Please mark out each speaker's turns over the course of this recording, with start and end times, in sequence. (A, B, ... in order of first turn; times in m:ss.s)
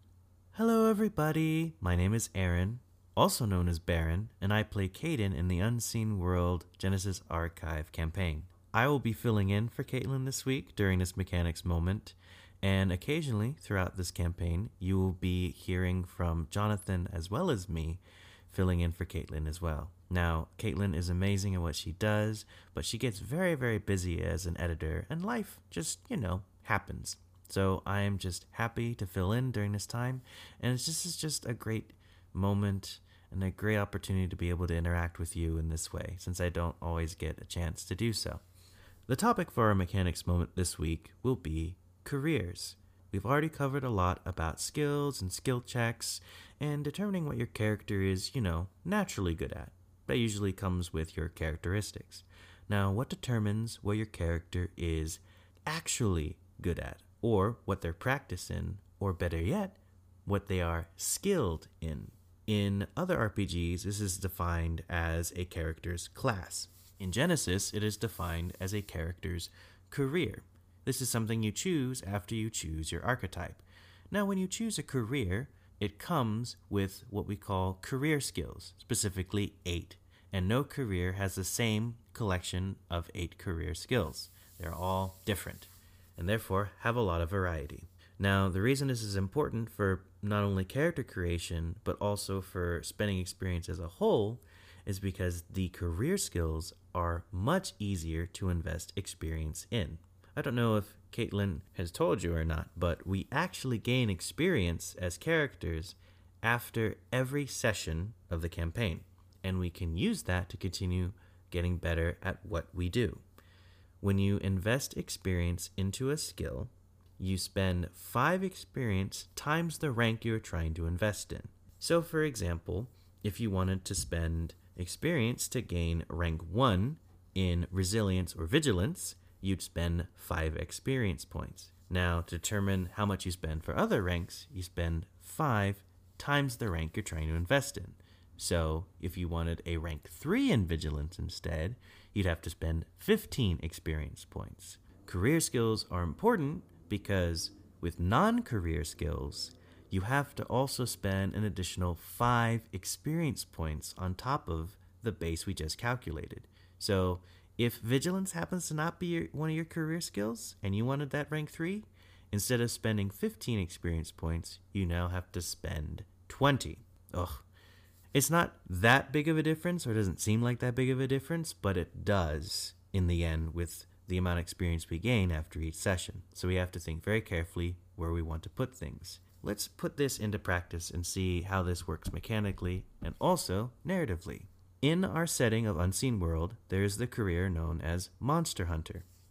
0:00.5-0:38.4 A
0:39.1-1:53.2 A
1:54.0-2:47.4 A
2:48.1-3:09.0 A